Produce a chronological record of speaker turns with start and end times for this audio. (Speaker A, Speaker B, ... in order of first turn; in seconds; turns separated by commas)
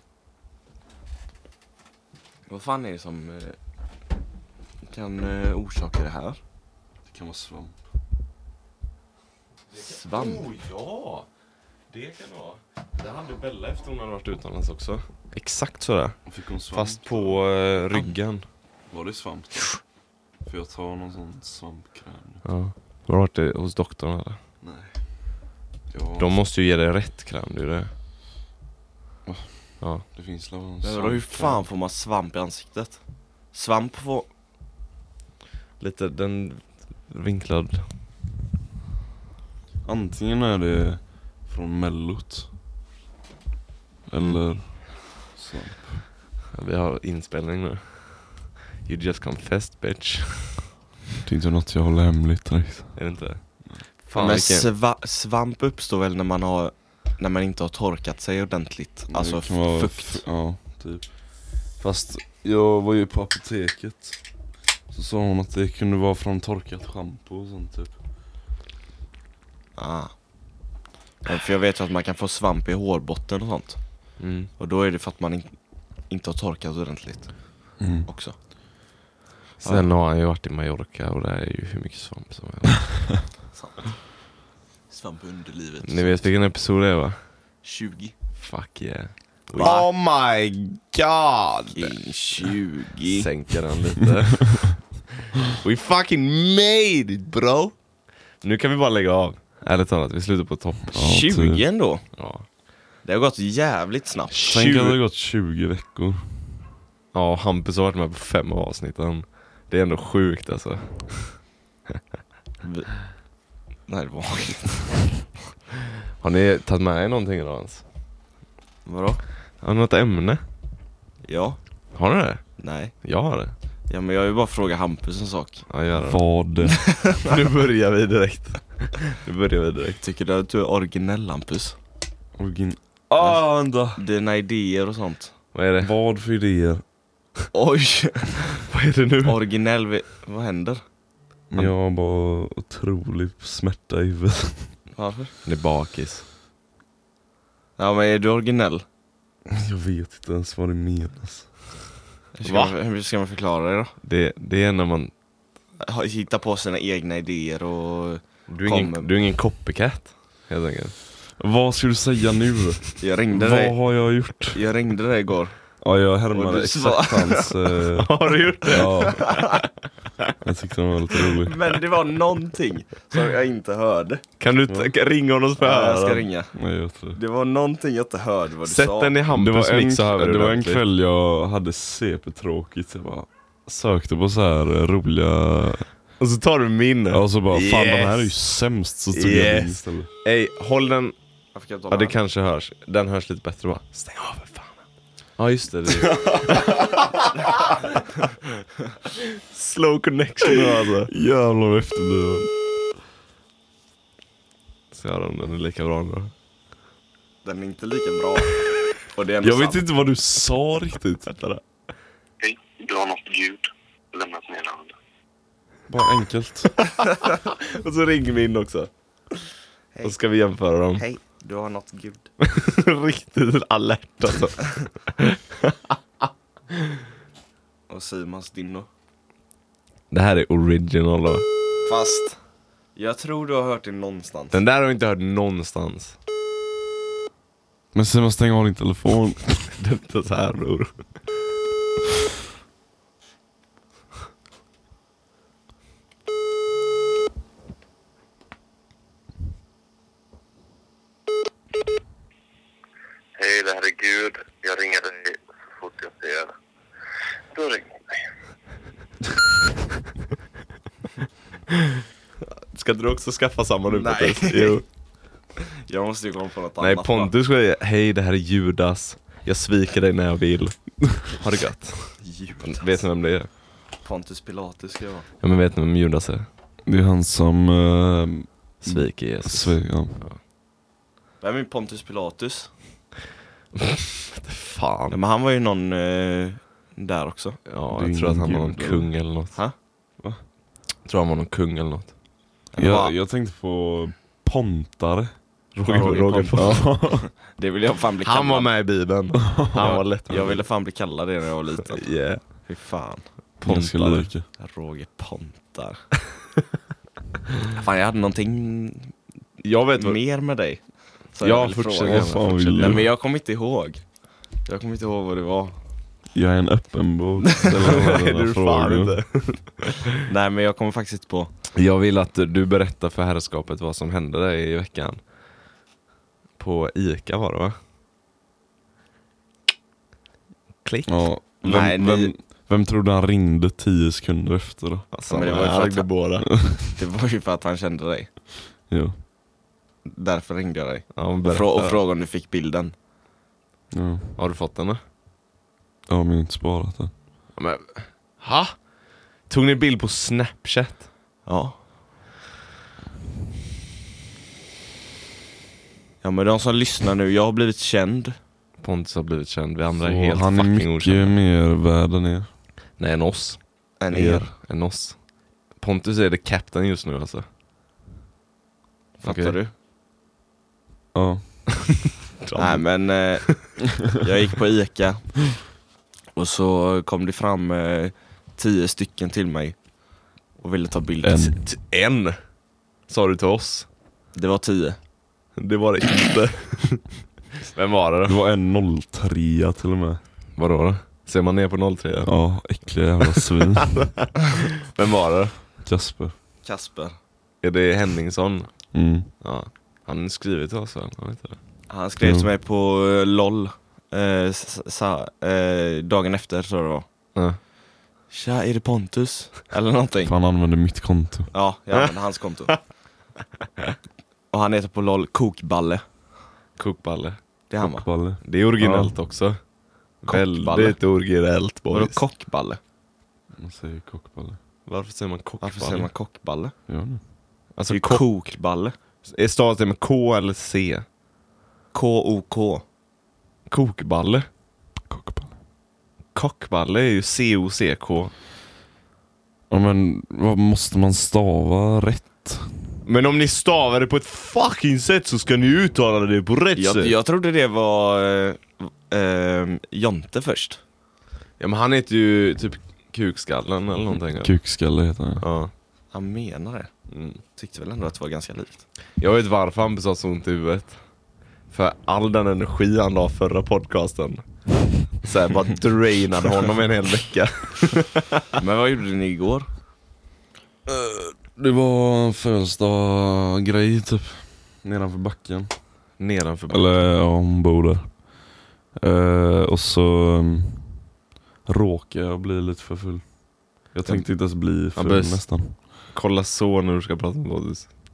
Speaker A: 2.5-3.6, Speaker A: 4.9-6.4, Speaker B: 7.1-7.8, Speaker C: 9.7-11.3, Speaker A: 9.8-10.5, Speaker C: 11.9-16.2, Speaker B: 16.3-17.4, Speaker C: 16.7-18.4, Speaker B: 18.9-19.8, Speaker B: 20.4-22.4, Speaker C: 22.4-24.4, Speaker B: 24.6-25.0, Speaker B: 25.9-26.4, Speaker C: 26.2-27.9, Speaker B: 29.3-29.5, Speaker B: 30.0-31.6, Speaker A: 30.8-34.3, Speaker C: 35.8-37.9, Speaker B: 39.9-42.5, Speaker B: 44.1-46.0, Speaker C: 46.5-50.7, Speaker B: 51.2-53.0, Speaker C: 52.9-54.7, Speaker A: 54.1-60.2, Speaker B: 59.1-61.2, Speaker B: 61.8-64.2, Speaker B: 64.9-68.0, Speaker A: 69.8-70.2, Speaker A: 71.2-75.5, Speaker C: 74.2-74.5, Speaker A: 76.1-78.3, Speaker B: 77.8-78.1, Speaker C: 79.6-83.2, Speaker A: 83.5-84.0, Speaker A: 84.9-86.2, Speaker C: 85.8-87.2, Speaker A: 87.6-88.1, Speaker C: 88.4-91.9, Speaker A: 89.5-89.9, Speaker A: 91.7-93.3, Speaker C: 93.1-97.7, Speaker C: 98.4-101.0, Speaker B: 100.9-101.6, Speaker A: 101.0-102.0, Speaker C: 102.2-102.4, Speaker A: 103.0-104.6, Speaker B: 104.4-106.6, Speaker C: 104.5-105.0, Speaker C: 107.1-111.4, Speaker A: 112.6-112.9, Speaker A: 113.9-115.0, Speaker C: 116.2-117.8, Speaker A: 118.9-119.2, Speaker C: 119.6-120.4, Speaker A: 121.2-121.6, Speaker C: 122.0-123.5, Speaker A: 122.6-122.9, Speaker A: 123.9-125.6, Speaker C: 125.7-126.3, Speaker B: 126.0-126.8, Speaker A: 126.9-127.3, Speaker C: 127.2-130.0, Speaker A: 130.0-131.8, Speaker B: 132.4-134.0, Speaker A: 133.2-135.3, Speaker C: 135.5-135.9, Speaker B: 135.8-136.8, Speaker A: 137.5-138.6, Speaker C: 138.7-139.4, Speaker A: 139.2-140.8, Speaker B: 141.5-144.8, Speaker A: 144.9-145.3, Speaker C: 145.4-146.2, Speaker A: 147.8-148.8, Speaker B: 149.5-151.5, Speaker A: 152.3-153.9, Speaker C: 152.4-152.7, Speaker C: 154.0-155.1, Speaker A: 155.8-159.1, Speaker C: 158.5-160.9, Speaker B: 161.4-164.6, Speaker A: 163.0-165.6, Speaker B: 165.8-168.1, Speaker A: 166.3-167.6, Speaker C: 167.9-169.6, Speaker B: 168.7-169.3, Speaker A: 169.1-169.6, Speaker B: 170.4-171.6, Speaker A: 171.4-174.2, Speaker C: 174.4-176.3, Speaker A: 175.6-176.5, Speaker B: 176.5-177.2, Speaker A: 177.1-179.1, Speaker C: 178.7-180.8, Speaker B: 179.3-185.8, Speaker C: 186.2-188.4, Speaker B: 187.1-190.1, Speaker C: 189.1-191.2, Speaker A: 191.5-192.2, Speaker C: 191.9-194.8, Speaker C: 195.4-197.7, Speaker B: 196.2-196.7, Speaker C: 199.2-201.1, Speaker B: 200.5-202.5, Speaker C: 204.9-206.3, Speaker A: 207.4-208.6, Speaker A: 209.1-209.8, Speaker B: 209.4-211.3, Speaker C: 211.3-211.6, Speaker D: 212.4-214.9, Speaker B: 215.9-216.7, Speaker C: 216.8-218.9, Speaker C: 220.0-221.0, Speaker A: 221.0-222.3, Speaker C: 222.4-225.9, Speaker A: 227.9-228.9, Speaker C: 230.1-231.5, Speaker A: 231.9-232.4, Speaker A: 233.0-234.6, Speaker C: 234.5-236.2, Speaker B: 237.9-239.7, Speaker C: 239.8-241.0, Speaker D: 253.4-256.5, Speaker D: 257.5-257.9, Speaker C: 262.7-264.8, Speaker A: 263.9-264.8, Speaker A: 265.9-267.3, Speaker C: 266.8-273.5, Speaker A: 272.2-273.0, Speaker A: 274.0-275.3, Speaker C: 275.4-276.5, Speaker B: 276.9-280.2, Speaker C: 278.8-280.4, Speaker A: 281.4-282.7, Speaker C: 283.8-285.2, Speaker A: 285.1-287.6, Speaker C: 287.7-289.6, Speaker B: 287.9-289.1, Speaker C: 291.1-292.1, Speaker B: 292.7-297.3, Speaker A: 292.8-293.1, Speaker C: 295.9-297.0, Speaker A: 297.6-298.7, Speaker C: 298.2-300.6, Speaker B: 299.5-300.0, Speaker A: 300.3-303.2, Speaker C: 301.9-302.4, Speaker C: 303.6-304.3, Speaker B: 303.6-304.5, Speaker A: 304.6-306.0, Speaker A: 307.8-309.1, Speaker C: 309.6-310.2, Speaker A: 310.0-314.0, Speaker C: 311.4-313.1, Speaker B: 312.0-313.0, Speaker A: 314.6-315.8, Speaker B: 316.3-319.2, Speaker C: 317.8-320.1, Speaker A: 320.2-321.5, Speaker C: 321.8-325.2, Speaker C: 326.6-327.8, Speaker C: 330.8-331.3, Speaker B: 331.1-335.1, Speaker A: 331.6-332.3, Speaker C: 335.1-336.5, Speaker A: 335.3-336.1, Speaker A: 336.9-338.3, Speaker B: 338.9-339.2, Speaker A: 340.1-342.9, Speaker C: 341.1-342.0, Speaker B: 343.9-344.3, Speaker C: 344.4-345.0, Speaker B: 346.1-347.1, Speaker C: 347.6-348.9, Speaker C: 349.5-351.1, Speaker A: 351.5-351.8, Speaker A: 356.2-358.4, Speaker C: 358.8-361.4, Speaker B: 360.0-362.5, Speaker C: 363.0-363.9, Speaker A: 364.0-364.5, Speaker B: 364.1-364.5, Speaker C: 364.5-365.2, Speaker C: 365.8-367.5, Speaker A: 369.2-369.7, Speaker C: 369.2-369.6, Speaker B: 371.1-371.7, Speaker C: 371.9-373.6, Speaker A: 372.6-375.6, Speaker A: 376.4-379.8, Speaker A: 380.6-381.4, Speaker B: 381.2-381.6, Speaker C: 381.4-382.4, Speaker C: 383.1-383.9, Speaker A: 384.4-385.0, Speaker C: 385.6-387.0, Speaker C: 387.7-388.4, Speaker B: 388.2-390.2, Speaker C: 390.6-392.3, Speaker B: 392.2-394.0, Speaker C: 393.9-395.6, Speaker B: 395.8-396.3, Speaker A: 396.6-397.2, Speaker C: 397.6-401.6, Speaker B: 398.9-399.3, Speaker A: 401.9-407.1, Speaker B: 402.2-402.5, Speaker A: 408.3-410.3, Speaker B: 410.2-411.5, Speaker A: 411.5-412.8, Speaker A: 414.5-416.0, Speaker C: 416.8-417.4, Speaker A: 417.7-418.1, Speaker B: 417.8-419.1, Speaker C: 418.4-419.6, Speaker C: 420.2-422.2, Speaker A: 420.3-421.0, Speaker A: 421.9-422.8, Speaker B: 423.6-424.6, Speaker C: 424.9-426.1, Speaker A: 425.6-426.7, Speaker B: 426.9-427.2, Speaker C: 427.8-428.3, Speaker A: 427.9-429.0, Speaker C: 429.3-431.1, Speaker A: 431.9-432.8, Speaker C: 433.7-434.5, Speaker B: 435.1-435.5, Speaker C: 436.3-438.3, Speaker B: 439.7-442.9, Speaker C: 443.1-447.1, Speaker A: 446.8-450.8, Speaker C: 451.6-454.5, Speaker B: 454.4-455.4, Speaker C: 455.4-455.7, Speaker A: 456.1-456.9, Speaker C: 457.1-457.4, Speaker A: 457.6-458.8, Speaker C: 459.2-461.0, Speaker C: 461.7-464.4, Speaker C: 465.2-468.4, Speaker A: 468.6-469.7, Speaker B: 470.9-475.8, Speaker C: 476.2-477.0, Speaker B: 476.7-478.3, Speaker B: 478.9-481.1, Speaker B: 481.7-485.7, Speaker C: 485.0-488.0